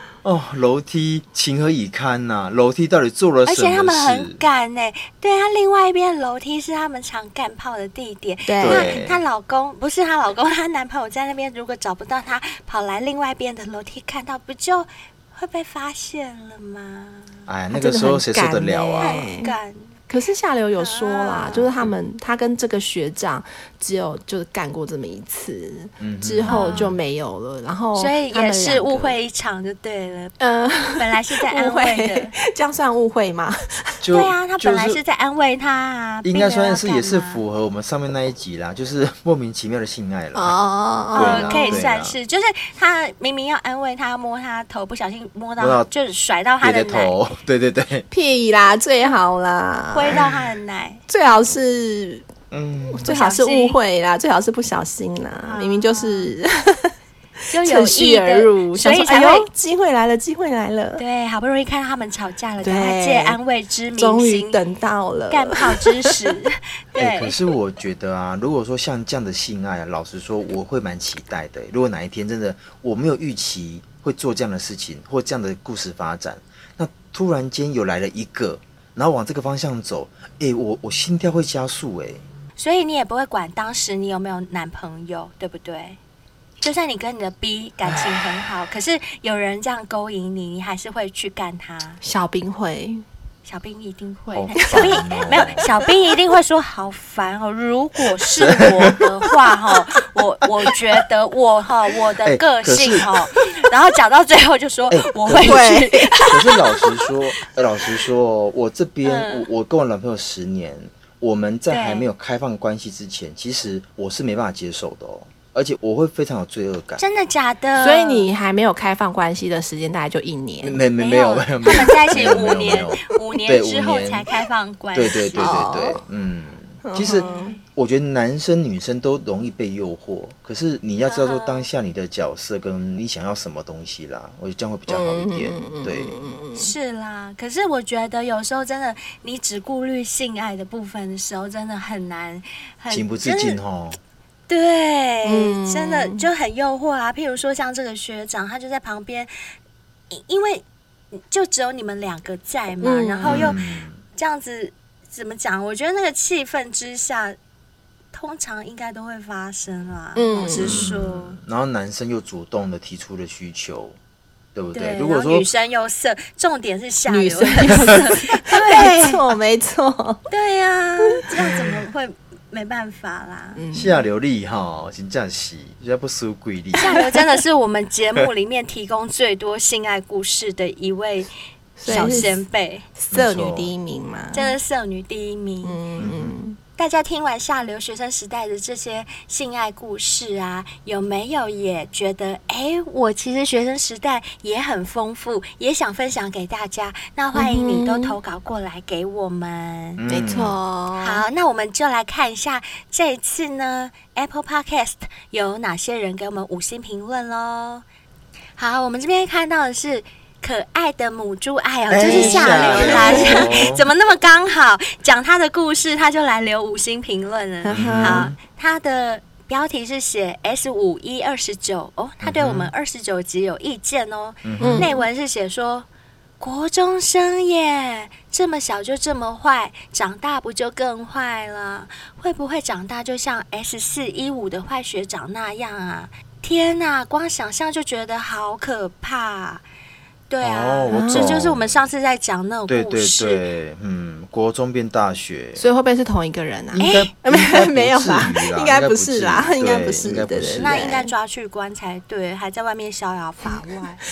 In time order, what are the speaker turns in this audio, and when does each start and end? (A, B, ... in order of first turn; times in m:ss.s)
0:00.2-0:04.4 A
0:03.4-0:17.4 B
0:08.5-0:09.0 C
0:08.6-0:09.2 A
0:17.5-0:19.2 A
0:17.7-0:19.5 C
0:19.0-0:19.9 B
0:20.1-0:29.2 C
0:20.8-0:21.7 B
0:26.0-0:27.0 A
0:26.5-0:26.9 B
0:28.0-0:30.4 B
0:30.4-0:33.9 C
0:30.9-0:32.3 B
0:34.0-0:35.0 A
0:34.1-0:37.4 B
0:36.2-0:40.6 A
0:40.3-0:41.8 C
0:41.1-0:42.1 A
0:41.1-0:47.1 B
0:45.6-0:45.9 A
0:46.6-0:48.0 A
0:48.1-0:50.2 C
0:49.9-0:51.0 B
0:50.1-0:50.4 A
0:51.1-0:52.2 C
0:52.5-0:53.2 A
0:53.0-0:56.9 C
0:53.0-0:53.8 B
0:55.4-0:56.3 B
0:57.5-1:01.0 C
0:57.5-0:59.5 B
1:01.0-1:04.6 B
1:02.6-1:03.4 C
1:04.0-1:06.1 C
1:05.3-1:07.4 B
1:07.0-1:22.2 A
1:22.6-1:26.0 B
1:26.6-1:32.0 B
1:27.9-1:28.2 A
1:32.0-1:33.0 C
1:33.4-1:47.1 B
1:34.3-1:35.7 A
1:34.6-1:35.0 C
1:38.4-1:39.0 A
1:42.2-1:43.1 A
1:44.9-1:57.0 A
1:45.4-1:46.2 C
1:49.0-1:49.5 B
1:51.7-1:52.0 B
1:57.0-1:58.3 B
1:57.8-2:00.8 C
2:00.6-2:04.3 A
2:01.0-2:05.6 B
2:04.9-2:16.2 A
2:05.4-2:06.0 C
2:06.8-2:07.6 C
2:07.1-2:07.6 B
2:11.0-2:11.7 B
2:14.9-2:16.7 C
2:16.6-2:23.6 B
2:22.9-2:24.0 A
2:24.5-2:29.3 B
2:25.2-2:26.3 C
2:30.1-2:33.6 B
2:32.8-2:33.5 C
2:33.2-2:34.0 A
2:34.1-2:37.4 B
2:38.1-2:41.4 B
2:40.2-2:40.9 C
2:40.6-2:44.0 A
2:44.5-2:45.5 A
2:44.7-2:49.2 B
2:47.1-2:50.2 C
2:50.3-2:53.6 B
2:53.6-2:54.0 C
2:53.7-2:56.9 A
2:56.8-3:01.3 B
3:01.8-3:02.4 C
3:01.8-3:02.9 B
3:01.9-3:02.2 A
3:03.0-3:04.6 C
3:03.1-3:03.7 A
3:04.3-3:05.8 B
3:05.6-3:06.6 C
3:06.0-3:06.3 A
3:06.8-3:20.0 B
3:17.3-3:18.2 C
3:20.0-3:20.6 A
3:20.1-3:21.2 C
3:21.0-3:27.8 B
3:28.6-3:45.8 B
3:31.9-3:33.8 A
3:32.0-3:33.6 C
3:37.6-3:38.3 C
3:37.7-3:38.4 A
3:42.2-3:42.7 A
3:44.4-3:44.9 A
3:44.6-3:45.0 C
3:46.4-3:59.6 B
4:00.3-4:03.4 B
4:00.4-4:01.8 A
4:00.9-4:01.3 C
4:02.7-4:05.6 A
4:05.6-4:11.1 C
4:06.7-4:10.9 A
4:06.8-4:07.1 B
4:10.6-4:14.0 B